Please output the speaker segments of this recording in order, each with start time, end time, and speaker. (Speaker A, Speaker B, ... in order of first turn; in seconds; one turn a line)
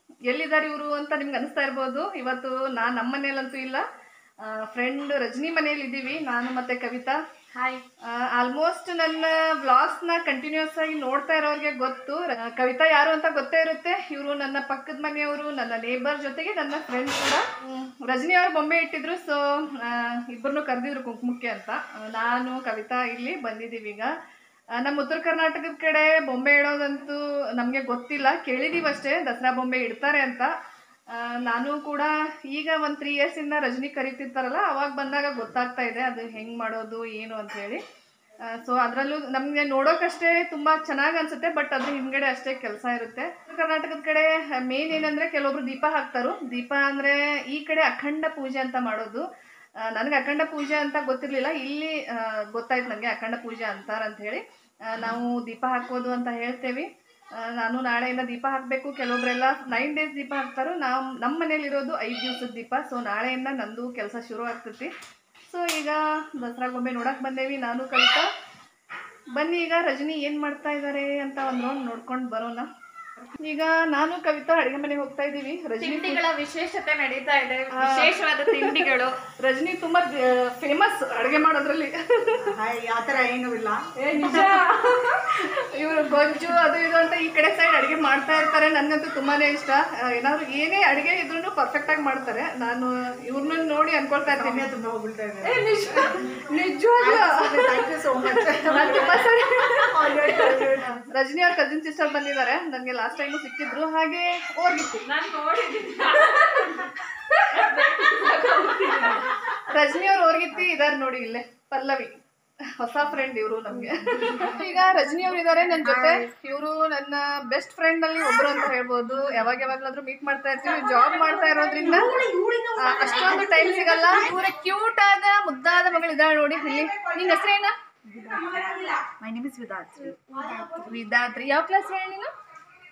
Speaker A: 0.3-3.8
Speaker A: 4.4-7.2
Speaker B: 7.5-7.8
Speaker A: 8.0-24.1
Speaker A: 24.8-30.5
Speaker A: 31.1-37.8
Speaker A: 38.4-49.2
Speaker A: 49.8-64.9
Speaker A: 65.5-68.3
Speaker A: 69.3-72.7
Speaker A: 73.2-76.2
Speaker B: 75.8-79.2
Speaker A: 77.7-82.5
Speaker C: 82.5-84.9
Speaker A: 84.0-94.7
Speaker C: 94.2-101.0
Speaker A: 95.4-104.5
Speaker C: 104.5-105.1
Speaker B: 105.0-109.6
Speaker A: 106.7-107.8
Speaker A: 109.0-122.2
Speaker C: 115.8-116.3
Speaker C: 121.2-124.1
Speaker A: 122.8-127.7
Speaker C: 126.7-127.5
Speaker C: 128.1-130.9
Speaker A: 130.5-132.3